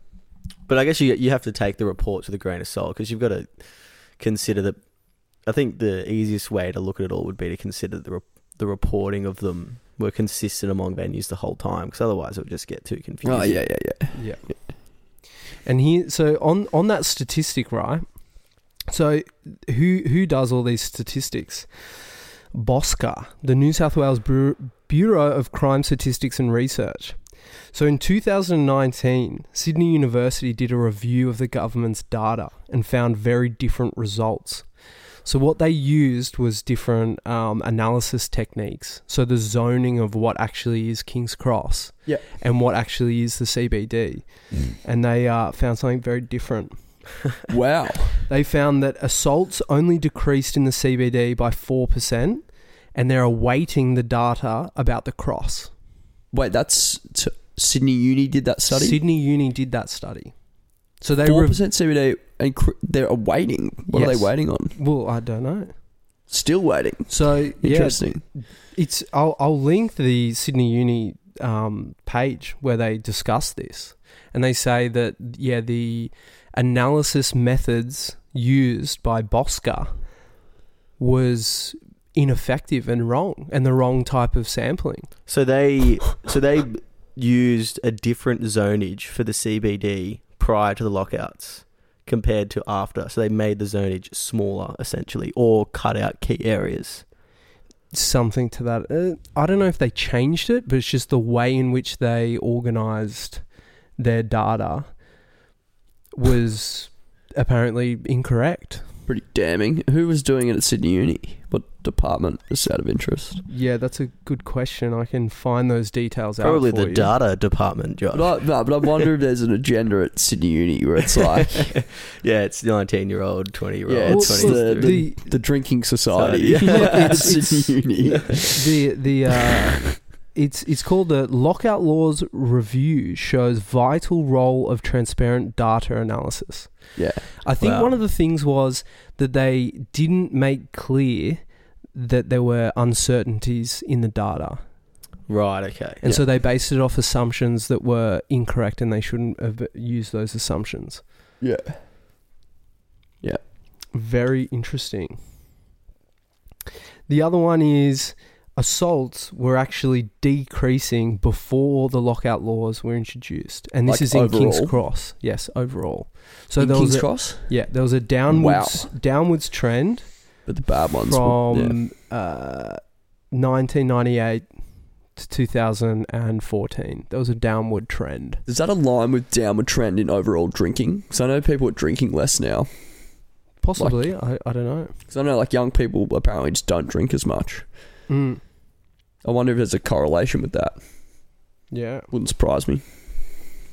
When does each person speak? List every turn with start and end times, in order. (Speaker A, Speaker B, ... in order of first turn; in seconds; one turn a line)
Speaker A: 0.7-13.9
Speaker B: 13.2-14.6
Speaker C: 14.1-47.2
Speaker B: 47.5-48.2
Speaker C: 48.3-55.7
Speaker B: 56.3-59.0
Speaker C: 58.7-61.6
Speaker B: 61.2-64.8
Speaker C: 63.9-65.8
Speaker B: 66.3-68.2
Speaker C: 67.1-80.2
Speaker C: 81.0-85.1
Speaker A: 85.3-97.1
Speaker C: 97.9-105.1
Speaker C: 106.2-108.9
Speaker B: 109.0-113.4
Speaker C: 113.5-117.1
Speaker A: 116.4-119.0
Speaker B: 118.1-121.8
Speaker A: 121.7-125.6
Speaker B: 123.8-128.6
Speaker C: 124.1-125.2
Speaker A: 126.1-127.5
Speaker C: 126.7-144.6
Speaker B: 136.9-137.4
Speaker A: 137.6-138.0
Speaker A: 145.3-146.0
Speaker C: 146.0-151.0
Speaker B: 151.4-151.8
Speaker C: 153.9-155.2
Speaker C: 157.1-178.4
Speaker B: 163.8-164.8
Speaker B: 166.6-168.9
Speaker B: 170.4-171.8
Speaker B: 178.4-184.2
Speaker C: 183.6-184.9
Speaker B: 185.1-187.8
Speaker C: 188.1-188.4
Speaker B: 189.2-191.3
Speaker C: 191.7-192.1
Speaker B: 192.1-192.8